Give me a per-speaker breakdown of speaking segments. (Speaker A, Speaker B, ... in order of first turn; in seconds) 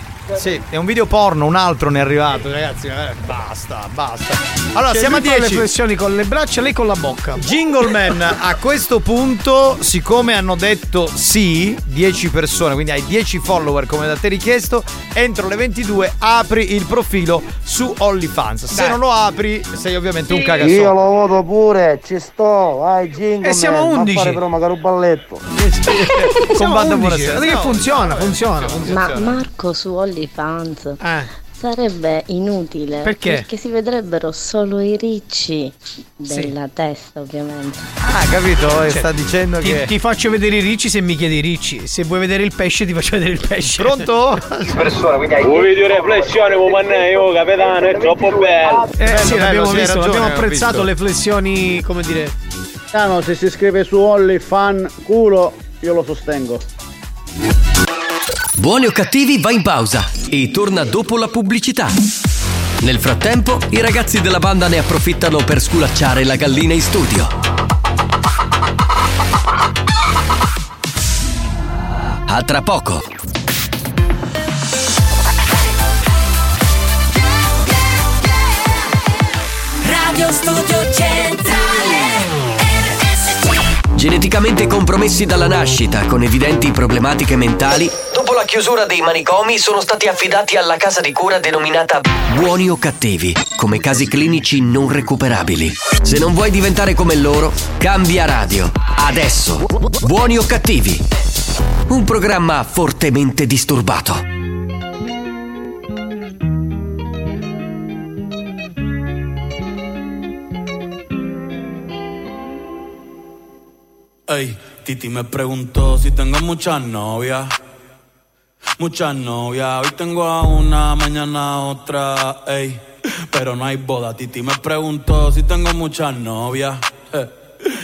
Speaker A: 0.3-5.7, 7.4-21.0, 25.5-29.4, 38.0-39.9, 43.7-44.8, 49.0-50.9
Speaker B: 4.9-7.4, 18.7-19.0, 23.4-24.4, 26.5-28.9, 31.0-31.3, 33.0-33.5, 39.6-44.1, 49.0-52.3
Speaker C: 20.4-25.4
Speaker D: 28.9-31.0, 31.6-37.8
Speaker E: 45.4-48.9
Speaker F: 58.6-61.9, 62.8-67.3, 72.3-73.0, 83.9-101.0, 101.9-104.2
Speaker G: 79.8-82.1
Speaker H: 114.3-117.5, 118.8-127.3